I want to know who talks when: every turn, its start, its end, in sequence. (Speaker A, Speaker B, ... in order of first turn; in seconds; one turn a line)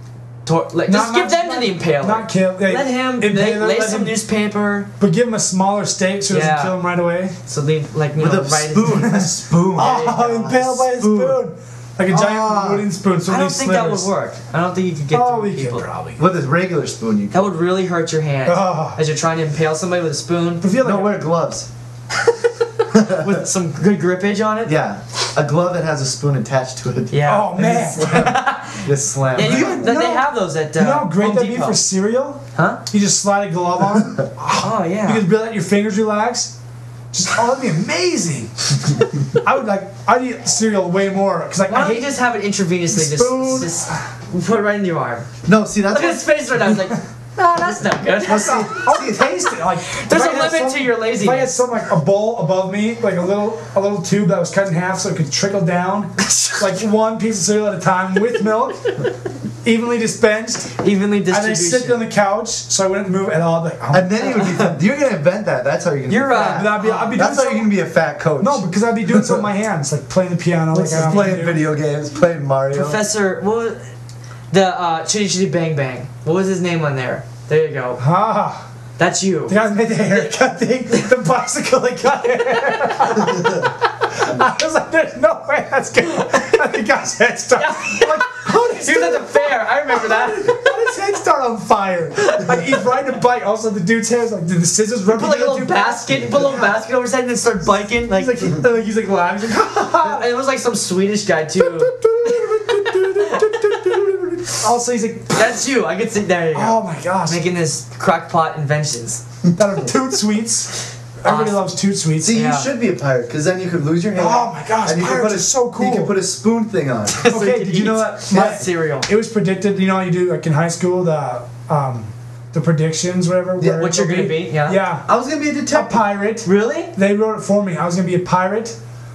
Speaker A: 0.5-4.9
Speaker B: 0.9-4.2
Speaker B: 5.0-7.3
Speaker A: 6.3-6.8
Speaker A: 7.5-9.2
Speaker C: 8.2-11.4
Speaker B: 8.9-14.1
Speaker C: 12.1-12.9
Speaker A: 13.3-15.8
Speaker B: 15.1-16.2
Speaker C: 16.2-17.4
Speaker A: 17.3-20.6
Speaker B: 18.5-19.0
Speaker B: 20.6-21.2
Speaker C: 20.8-21.7
Speaker C: 22.9-23.4
Speaker A: 22.9-24.7
Speaker C: 24.7-29.9
Speaker A: 27.1-31.8
Speaker B: 27.3-28.4
Speaker B: 29.4-36.5
Speaker A: 32.5-32.8
Speaker A: 34.5-35.2
Speaker B: 37.1-38.8
Speaker B: 39.3-42.1
Speaker A: 41.7-45.3
Speaker B: 42.9-44.0
Speaker C: 45.5-46.4
Speaker A: 45.9-48.8
Speaker C: 48.2-49.4
Speaker B: 48.2-59.0
Speaker A: 49.9-51.5
Speaker A: 56.2-56.6
Speaker B: 59.6-64.5
Speaker A: 60.8-62.0
Speaker C: 63.9-69.5
Speaker A: 64.2-64.7
Speaker A: 66.1-67.2
Speaker B: 66.3-67.8
Speaker B: 68.4-71.7
Speaker C: 70.7-73.0
Speaker A: 72.7-73.8
Speaker A: 74.5-78.0
Speaker B: 78.0-78.7
Speaker A: 79.0-79.6
Speaker B: 79.5-96.8
Speaker A: 87.6-90.7
Speaker A: 92.2-92.7
Speaker A: 95.1-98.5
Speaker B: 98.1-100.3
Speaker A: 99.7-104.0
Speaker B: 101.7-105.5
Speaker A: 105.3-109.2
Speaker B: 106.5-107.4
Speaker B: 109.6-112.4
Speaker A: 111.2-111.7
Speaker C: 112.2-117.3
Speaker A: 112.3-112.7
Speaker B: 114.2-116.1
Speaker A: 117.2-119.1
Speaker B: 117.3-125.1
Speaker C: 123.6-123.9
Speaker A: 123.8-124.8
Speaker C: 125.1-126.0
Speaker B: 125.7-128.8
Speaker A: 126.4-126.9